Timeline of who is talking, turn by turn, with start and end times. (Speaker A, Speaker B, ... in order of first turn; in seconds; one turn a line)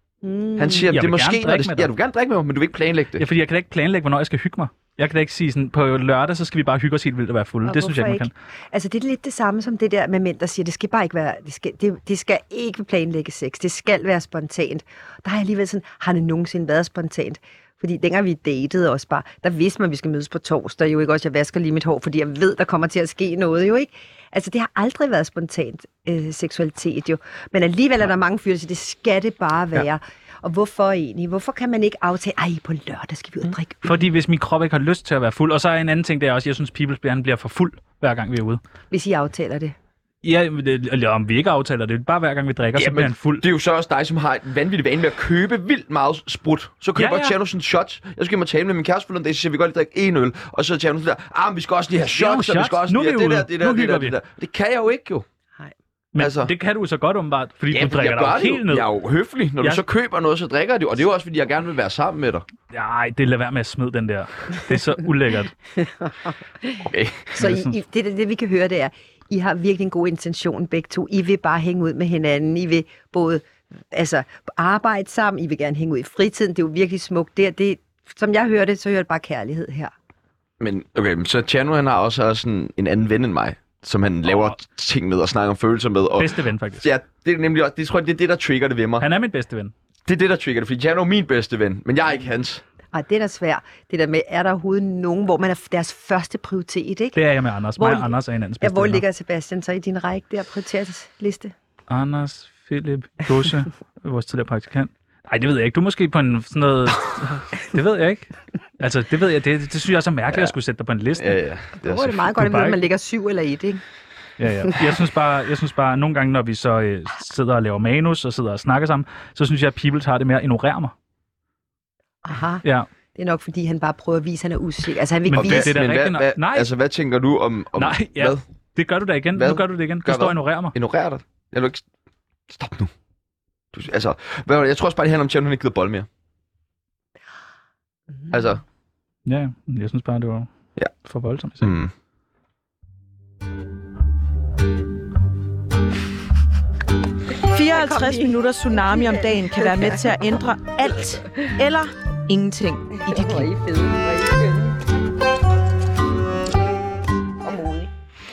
Speaker A: 0.2-0.9
Speaker B: 0.6-3.2
Speaker C: 0.9-1.9
Speaker C: 3.2-8.3
Speaker A: 7.6-34.0
Speaker C: 33.8-38.6
Speaker A: 38.9-39.7
Speaker C: 40.2-43.4
Speaker B: 42.7-55.2
Speaker C: 47.0-47.4
Speaker C: 52.1-54.2
Speaker C: 56.1-58.9
Speaker B: 56.2-56.5
Speaker B: 57.7-62.5
Speaker C: 62.7-65.5
Speaker A: 65.8-66.8
Speaker B: 66.8-67.3
Speaker A: 67.4-79.9
Speaker C: 67.4-67.7
Speaker B: 80.6-89.0
Speaker C: 86.2-86.9
Speaker C: 89.0-89.7
Speaker B: 90.0-92.6
Speaker A: 92.9-97.2
Speaker C: 97.2-99.0
Speaker A: 97.8-101.5
Speaker C: 101.9-111.4
Speaker B: 111.2-112.2
Speaker A: 111.8-113.8
Speaker C: 112.3-112.8
Speaker C: 114.4-120.9
Speaker A: 122.2-122.6
Speaker A: 123.1-125.7
Speaker C: 125.3-126.7
Speaker B: 125.3-128.4
Speaker C: 127.8-130.7
Speaker B: 129.4-131.8
Speaker B: 132.5-132.9
Speaker B: 133.7-136.1
Speaker B: 138.3-138.6
Speaker C: 139.2-140.5
Speaker C: 141.0-141.7
Speaker B: 141.6-141.9
Speaker D: 147.4-153.5
Speaker A: 147.7-150.2
Speaker A: 153.0-154.8
Speaker A: 157.4-157.9